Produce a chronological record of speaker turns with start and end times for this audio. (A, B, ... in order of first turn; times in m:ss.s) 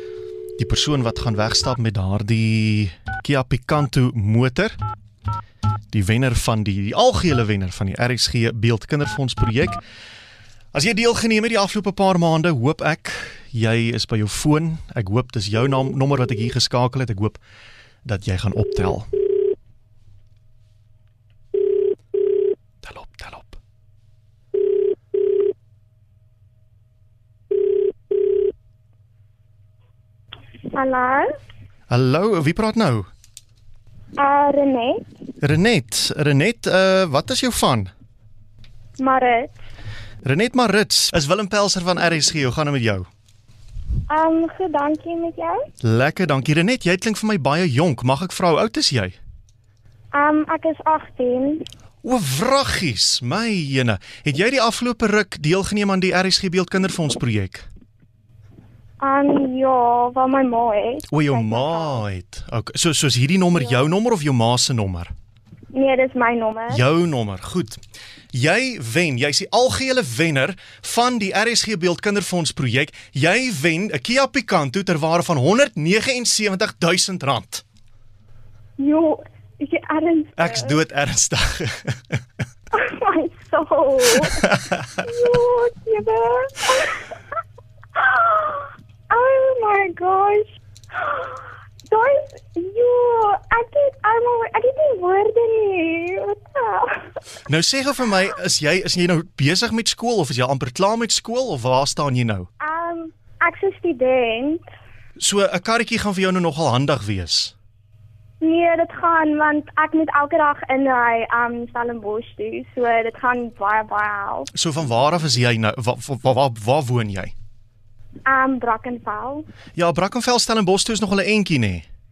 0:00.6-0:04.8 A
0:05.9-0:09.8 A
0:10.7-0:17.4 A
0:18.0-0:19.1 A
0:22.8-0:23.6 A
0:30.7-0:31.3 B
0:31.9-0:33.1 A
0:34.2-0:35.0 B
0:35.4-0:37.9 A
0:39.0-0:39.6 B
0:40.2-0:43.0 A
0:44.1-0:45.6 B
0:45.8-0:49.1 A
0:50.1-0:51.6 B
0:52.0-0:57.7 A
0:59.0-1:02.0 B
1:01.1-1:05.1 A
1:05.7-1:06.8 B
1:06.7-1:07.8 A
1:08.3-1:17.6 A
1:18.8-1:20.8 B
1:20.4-1:22.2 A
1:22.7-1:27.1 B
1:24.2-1:24.9 A
1:27.9-1:37.2 B
1:37.4-1:42.5 A
1:42.6-1:44.7 B
1:45.2-1:47.5 A
1:48.4-1:54.5 B
1:54.5-1:57.3 A
1:58.2-1:59.4 B
1:59.8-2:01.8 A